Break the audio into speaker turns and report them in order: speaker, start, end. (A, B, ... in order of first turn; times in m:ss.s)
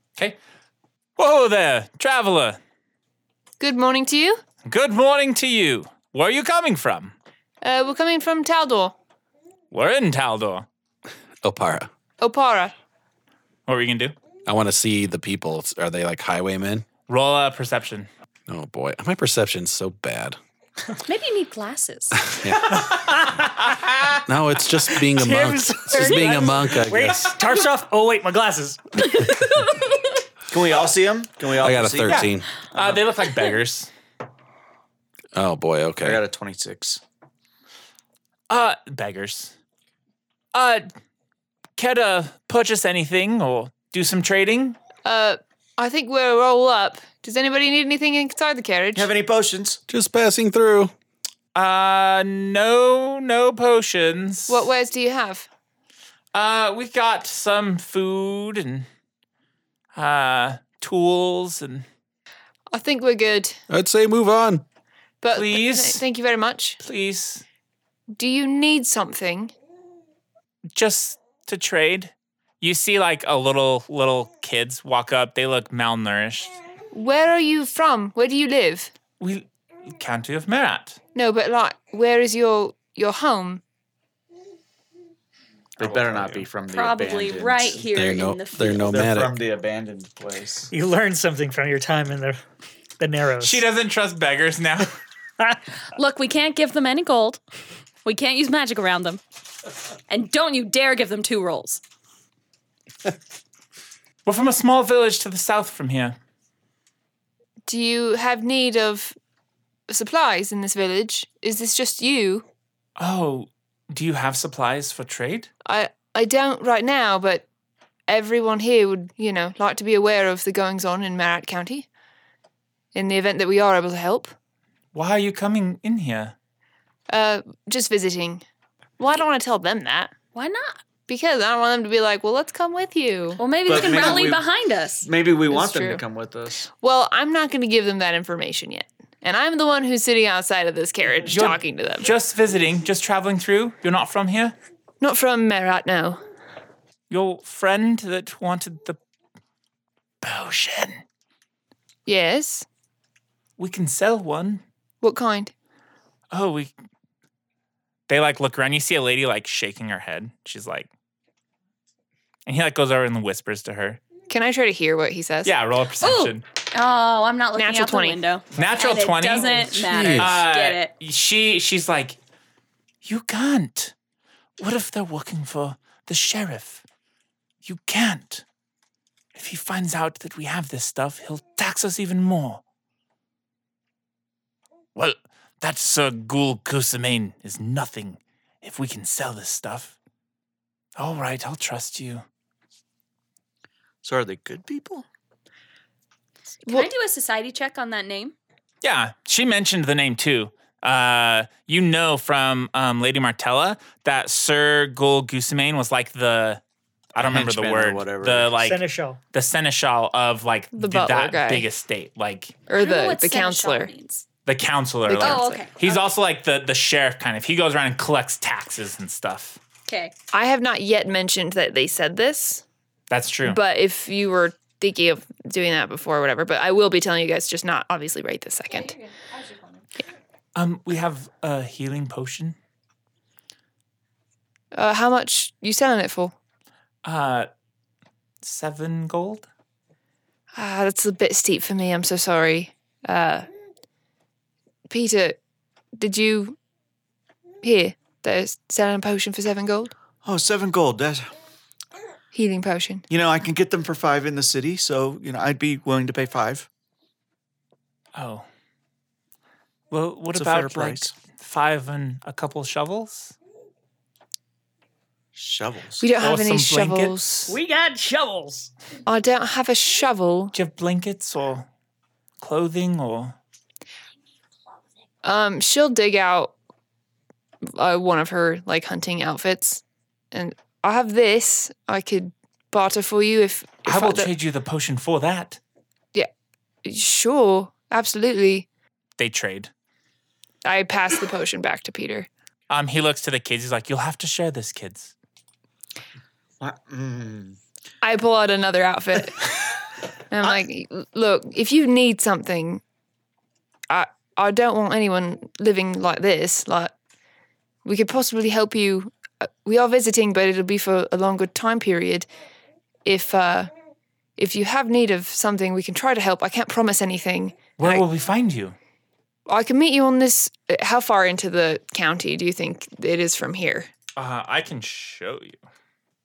0:01.2-0:02.6 A
0:03.6-0:04.4 B
0:04.6-0:07.1 A
0:07.6-0:09.0 B
0:09.7-0:10.6 A
0:11.4-0:11.9 C
0:12.2-0:12.7 B
0:13.7-0:14.1 A
0:14.4-0:16.9 C
0:17.1-0:18.1 A
0:18.5-0:20.4 C
0:21.0-0:22.2 D
0:22.3-0:22.9 C
0:22.6-0:24.2 A
0:24.3-0:27.3 C
0:25.1-0:29.1 E
0:29.1-0:30.1 D
0:30.5-0:33.0 F
0:31.5-0:32.5 C
0:32.0-0:33.9 A
0:35.3-0:36.2 C
0:36.0-0:37.0 F
0:38.5-0:39.5 A
0:40.5-0:40.9 A
0:41.8-0:44.8 A
0:45.0-0:49.1 B
0:48.9-0:49.8 F
0:49.9-0:50.9 C
0:51.6-0:54.7 A
0:54.5-0:55.5 B
0:56.3-0:58.9 A
0:59.9-1:01.8 A
1:02.7-1:03.6 B
1:03.7-1:04.6 C
1:05.2-1:06.8 B
1:05.3-1:06.0 A
1:06.8-1:07.4 A
1:08.1-1:09.5 B
1:10.7-1:16.6 A
1:16.9-1:18.9 B
1:19.2-1:21.0 A
1:21.1-1:23.6 B
1:25.8-1:27.8 F
1:25.8-1:26.5 A
1:26.7-1:28.9 D
1:27.9-1:29.4 C
1:28.6-1:30.7 F
1:30.7-1:32.4 E
1:33.0-1:33.6 E
1:33.4-1:35.0 A
1:35.9-1:37.4 D
1:38.0-1:39.2 D
1:40.1-1:41.8 D
1:44.2-1:46.2 A
1:47.6-1:49.2 B
1:49.9-1:52.4 B
1:53.0-1:55.5 A
1:55.6-1:57.4 B
1:58.1-2:01.9 B
2:02.9-2:04.3 B
2:04.9-2:06.3 A
2:07.1-2:08.4 B
2:09.0-2:10.1 B
2:10.3-2:10.8 D
2:11.1-2:14.3 B
2:13.4-2:15.1 D
2:13.6-2:14.4 F
2:15.0-2:16.7 F
2:15.5-2:16.0 B
2:16.8-2:22.1 B
2:21.3-2:24.6 A
2:25.0-2:26.2 B
2:27.1-2:29.0 A
2:30.2-2:31.0 A
2:32.0-2:32.6 B
2:33.6-2:34.6 A
2:35.0-2:35.5 B
2:36.3-2:36.7 A
2:38.1-2:40.9 A
2:42.4-2:44.0 A
2:44.3-2:45.5 B
2:45.4-2:46.4 A
2:46.0-2:50.9 D
2:47.6-2:48.2 B
2:48.6-2:52.2 A
2:49.9-2:50.4 C
2:53.0-2:53.9 A
2:54.6-2:56.8 A
2:57.6-2:58.4 A
2:59.3-3:02.6 A
3:05.0-3:10.0 A
3:11.0-3:12.2 A
3:14.0-3:15.0 F
3:16.6-3:18.3 D
3:18.8-3:26.6 A
3:27.1-3:28.8 A
3:27.2-3:28.5 F
3:28.6-3:29.2 E
3:29.3-3:32.6 A
3:30.7-3:31.7 B
3:32.7-3:33.9 B
3:32.7-3:34.2 D
3:34.4-3:39.6 A
3:35.1-3:36.0 B
3:35.2-3:35.8 D
3:39.9-3:40.1 D
3:40.3-3:42.6 B
3:43.1-3:43.6 A
3:43.4-3:48.9 B
3:48.7-3:49.8 D
3:50.6-3:52.6 A
3:54.7-3:56.3 B
3:57.0-3:57.5 A
3:58.4-3:59.5 A
4:00.5-4:03.5 B
4:04.9-4:05.4 B
4:06.0-4:06.6 B
4:07.6-4:09.9 B
4:10.2-4:11.3 F
4:12.3-4:13.0 B
4:13.1-4:16.7 F
4:18.1-4:18.4 A
4:19.9-4:23.3 A
4:20.3-4:21.1 F
4:25.3-4:26.0 F
4:26.0-4:27.6 B
4:26.2-4:27.3 A
4:27.5-4:28.7 E
4:29.0-4:30.5 B
4:30.5-4:31.7 A
4:32.4-4:33.4 A
4:35.2-4:36.5 B
4:37.7-4:44.3 B
4:43.9-4:45.6 A
4:46.8-4:48.7 B
4:49.2-4:49.7 A
4:50.6-4:52.3 B
4:52.7-4:55.1 A
4:56.6-4:57.6 F
4:58.0-4:59.4 B
5:00.3-5:02.8 B
5:03.9-5:06.9 B
5:07.8-5:12.3 B
5:13.0-5:13.7 B
5:14.4-5:18.0 B
5:17.8-5:18.8 A
5:19.5-5:23.9 B
5:24.2-5:25.6 A